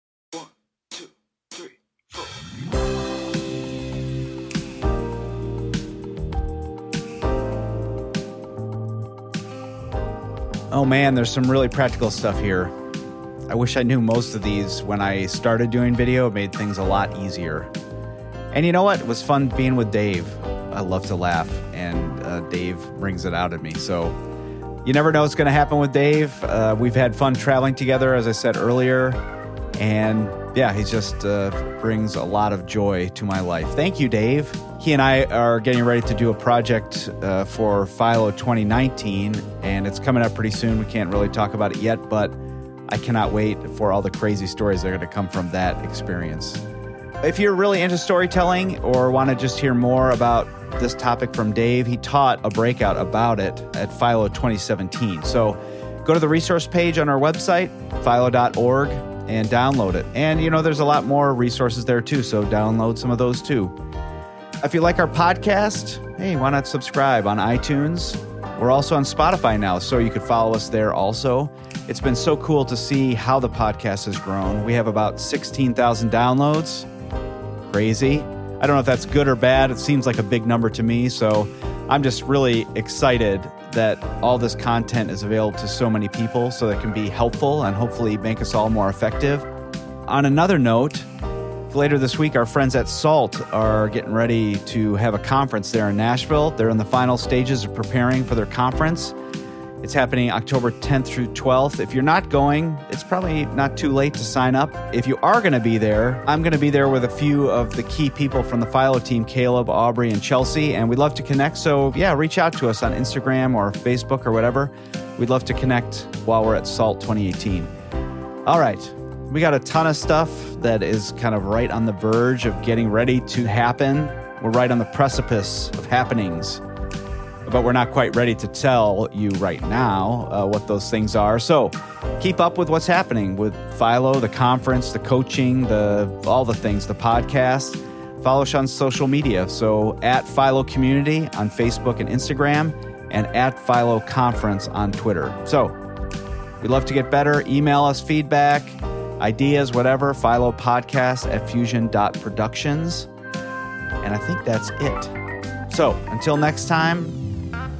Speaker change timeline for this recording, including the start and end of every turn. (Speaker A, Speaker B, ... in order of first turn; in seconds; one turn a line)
Speaker A: 10.7-12.7
Speaker A: 13.5-17.7
Speaker A: 18.5-24.1
Speaker A: 24.8-29.2
Speaker A: 29.8-42.4
Speaker A: 42.9-46.6
Speaker A: 47.2-63.7
Speaker A: 64.6-76.9
Speaker A: 77.6-89.5
Speaker A: 90.1-91.1
Speaker A: 91.7-99.1
Speaker A: 99.8-117.7
Speaker A: 118.5-126.6
Speaker A: 127.4-145.8
Speaker A: 146.6-153.1
Speaker A: 154.0-155.1
Speaker A: 155.7-157.2